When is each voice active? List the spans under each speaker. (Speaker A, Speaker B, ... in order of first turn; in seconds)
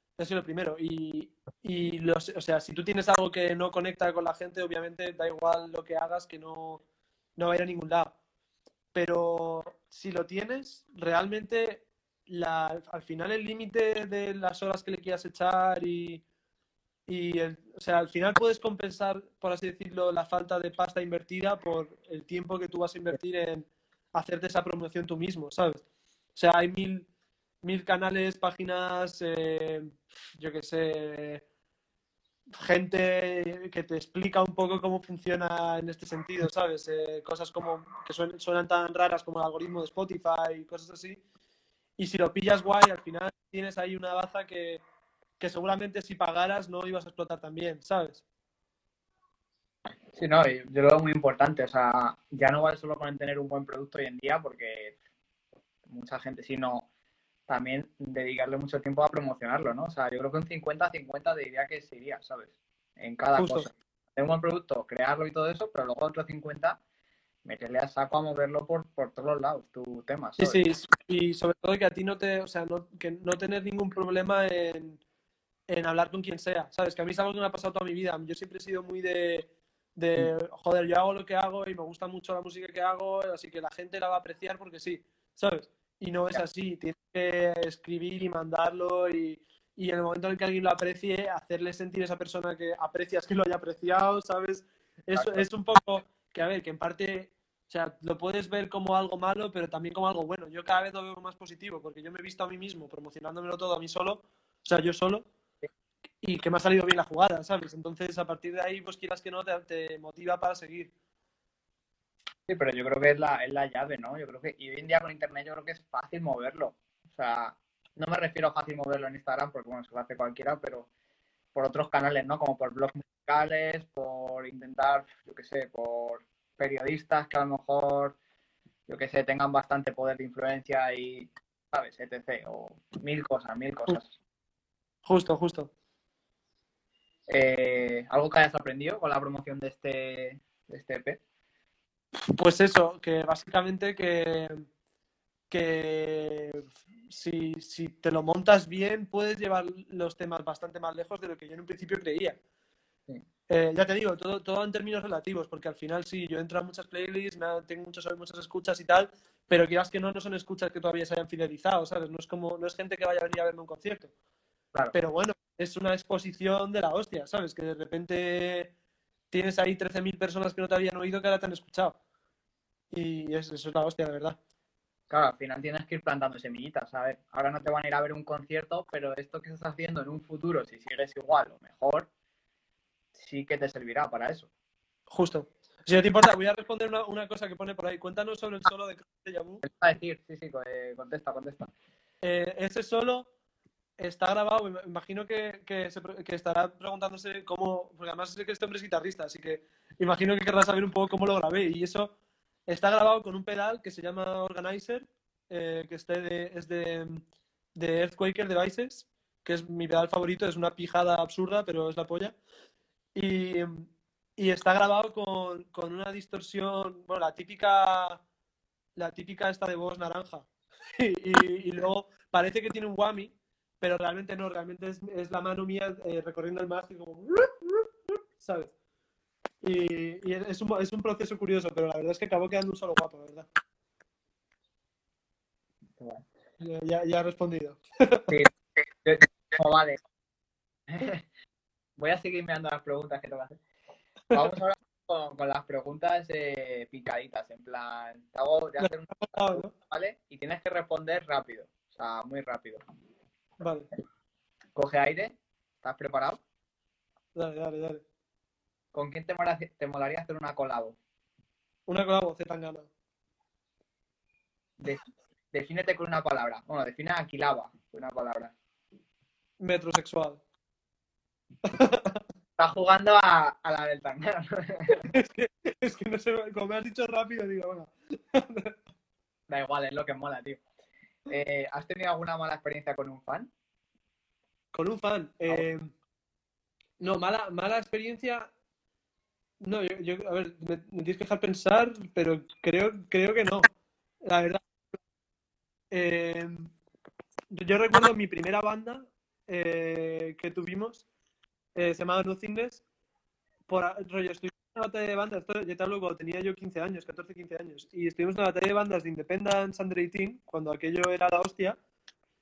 Speaker A: 0.2-6.8, 7.4-8.1, 8.9-16.2, 17.1-25.8, 26.3-27.1, 27.6-31.4, 32.6-41.2, 42.0-44.8, 45.4-48.2, 63.4-63.7, 70.4-75.0, 75.7-105.2, 106.2-110.9, 135.0-135.7, 142.2-144.7, 145.5-152.4, 153.5-164.1, 164.9-168.7, 169.3-172.0, 172.9-174.4, 185.1-189.6, 192.2-193.3, 194.0-202.1, 202.7-207.2, 207.8-212.3, 213.1-218.2, 219.0-228.7, 229.6-233.5, 236.6-238.3, 248.8-249.7, 253.6-253.9, 257.3-258.0, 261.9-262.9, 269.6-270.4, 271.6-272.2, 274.9-278.7, 284.7-285.9, 287.0-288.5, 289.6-293.7, 294.2-294.6, 295.9-296.7, 297.5-301.0, 301.7-302.8, 303.7-311.8
Speaker B: 50.1-55.0, 55.9-56.9, 57.5-66.8, 67.4-70.6, 95.1-95.5, 112.5-120.9, 121.5-128.2, 128.9-134.1, 137.3-141.2, 175.1-182.1, 183.1-184.5, 189.6-191.7, 236.0-236.2, 238.3-240.0, 240.9-241.3, 242.0-243.6, 244.3-252.8, 254.7-256.4, 258.9-261.0, 264.8-268.5, 272.6-275.1, 279.5-280.6, 281.3-283.5